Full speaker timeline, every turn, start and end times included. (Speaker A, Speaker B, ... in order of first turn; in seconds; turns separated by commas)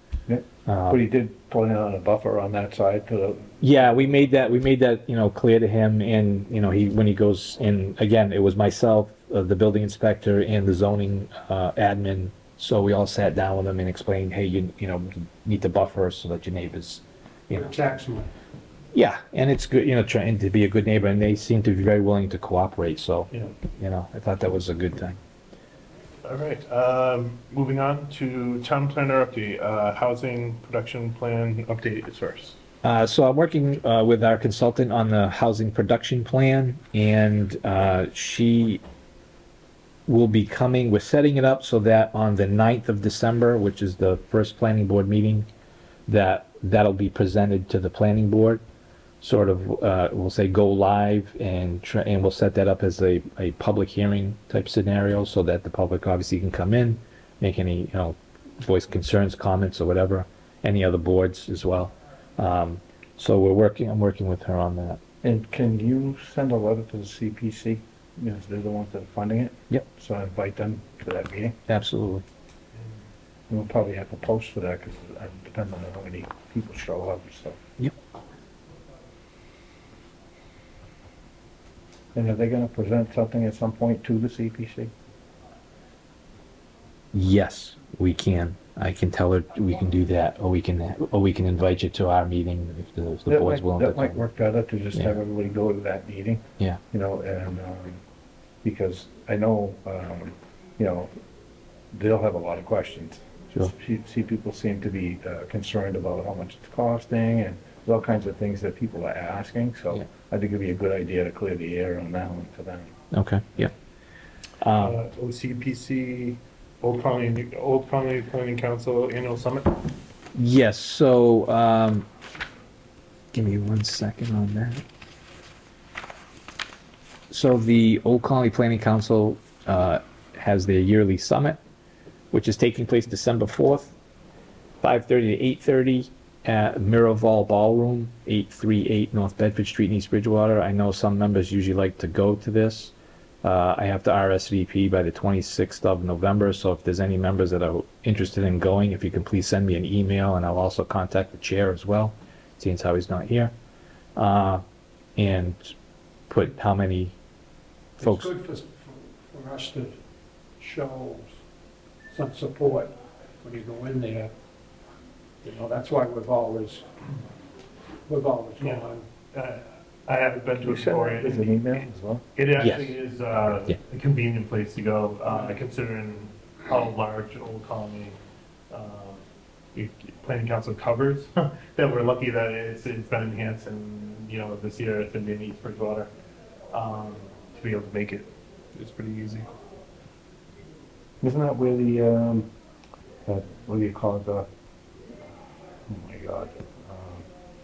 Speaker A: 0.3-4.3, Speaker B: 0.7-1.0, Speaker B: 3.6-17.7, Speaker C: 17.5-18.3, Speaker B: 18.9-25.2, Speaker D: 26.2-32.6, Speaker B: 32.8-38.8, Speaker B: 40.1-45.5, Speaker B: 46.1-48.6, Speaker B: 49.2-65.0, Speaker A: 65.2-71.5, Speaker B: 71.7-72.2, Speaker A: 73.5-77.6, Speaker A: 82.1-84.9, Speaker B: 87.1-94.2, Speaker A: 93.3-98.0, Speaker A: 98.6-101.1, Speaker A: 101.9-112.9, Speaker B: 113.1-113.7, Speaker B: 114.6-114.9, Speaker D: 114.8-119.9, Speaker B: 120.3-122.1, Speaker B: 123.3-124.8, Speaker B: 127.3-131.6, Speaker B: 132.3-133.9, Speaker B: 134.8-153.5, Speaker B: 154.2-154.6, Speaker B: 155.2-155.7, Speaker B: 156.3-157.1, Speaker C: 158.0-160.0, Speaker B: 158.0-158.3, Speaker C: 160.6-161.4, Speaker C: 162.1-164.3, Speaker C: 165.4-166.8, Speaker C: 168.1-169.1, Speaker D: 168.6-171.8, Speaker A: 170.6-172.2, Speaker D: 172.3-178.2, Speaker B: 172.6-172.9, Speaker D: 178.7-186.1, Speaker D: 186.7-189.5, Speaker A: 191.2-192.5, Speaker A: 193.2-194.5, Speaker A: 195.9-197.2